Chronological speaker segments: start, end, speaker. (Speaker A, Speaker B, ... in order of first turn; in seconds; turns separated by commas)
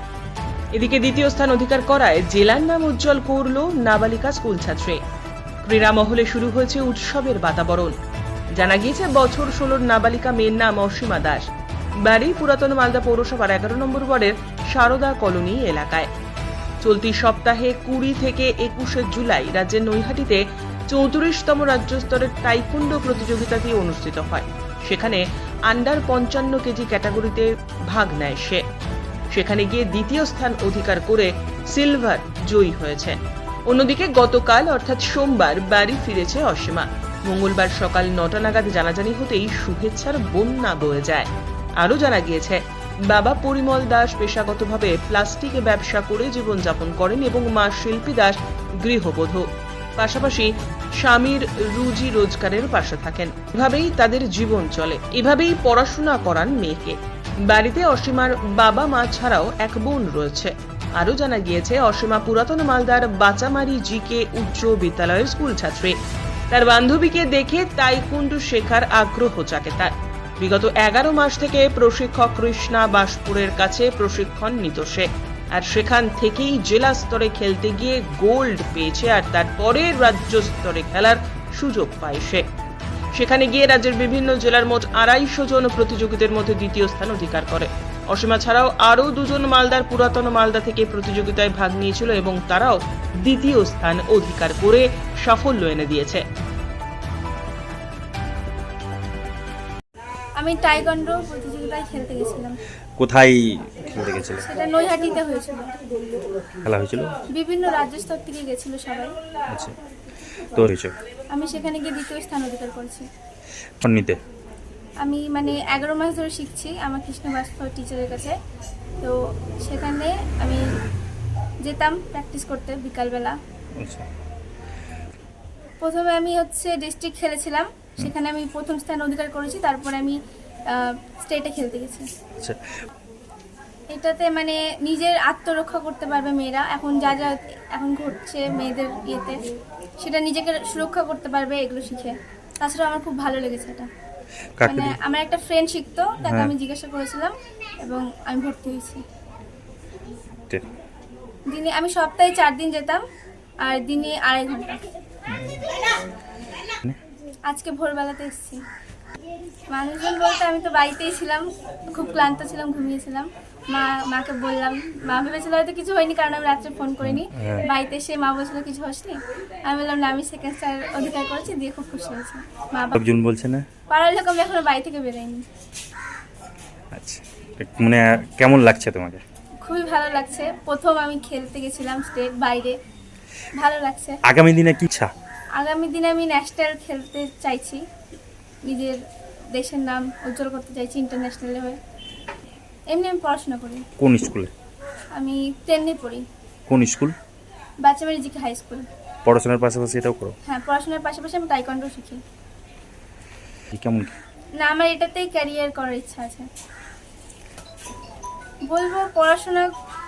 Speaker A: 0.7-5.0, Speaker A: 5.6-8.0, Speaker A: 8.6-11.5, Speaker A: 12.1-16.1, Speaker A: 16.8-28.6, Speaker A: 29.3-33.2, Speaker A: 33.7-49.5, Speaker A: 50.0-66.0, Speaker A: 66.5-82.4, Speaker A: 83.2-96.2, Speaker B: 100.4-102.6, Speaker C: 103.0-104.4, Speaker B: 104.4-105.7, Speaker C: 106.7-107.1, Speaker B: 107.3-109.1, Speaker C: 110.5-111.0, Speaker B: 111.3-113.1, Speaker C: 113.8-114.2, Speaker B: 115.0-118.3, Speaker B: 119.0-120.7, Speaker B: 121.6-123.4, Speaker C: 123.8-124.1, Speaker B: 125.8-130.2, Speaker B: 130.7-132.1, Speaker B: 133.9-139.4, Speaker B: 140.0-143.9, Speaker C: 144.6-144.9, Speaker B: 144.7-149.0, Speaker C: 146.2-146.5, Speaker B: 151.5-153.0, Speaker B: 153.6-154.8, Speaker C: 155.3-155.7, Speaker B: 157.5-158.6, Speaker B: 159.7-173.0, Speaker C: 167.1-167.6, Speaker C: 173.0-173.7, Speaker B: 173.9-175.4, Speaker C: 176.9-179.2, Speaker B: 179.6-182.8, Speaker B: 183.6-184.2, Speaker C: 184.3-185.1, Speaker B: 185.6-187.8, Speaker B: 188.7-189.0, Speaker B: 189.5-191.8, Speaker B: 192.9-193.9, Speaker C: 194.0-194.5, Speaker B: 195.1-196.2, Speaker C: 196.7-197.1, Speaker B: 197.8-198.9, Speaker C: 199.3-200.4, Speaker B: 200.5-202.2, Speaker C: 203.7-204.1, Speaker B: 204.6-206.5, Speaker B: 208.7-209.7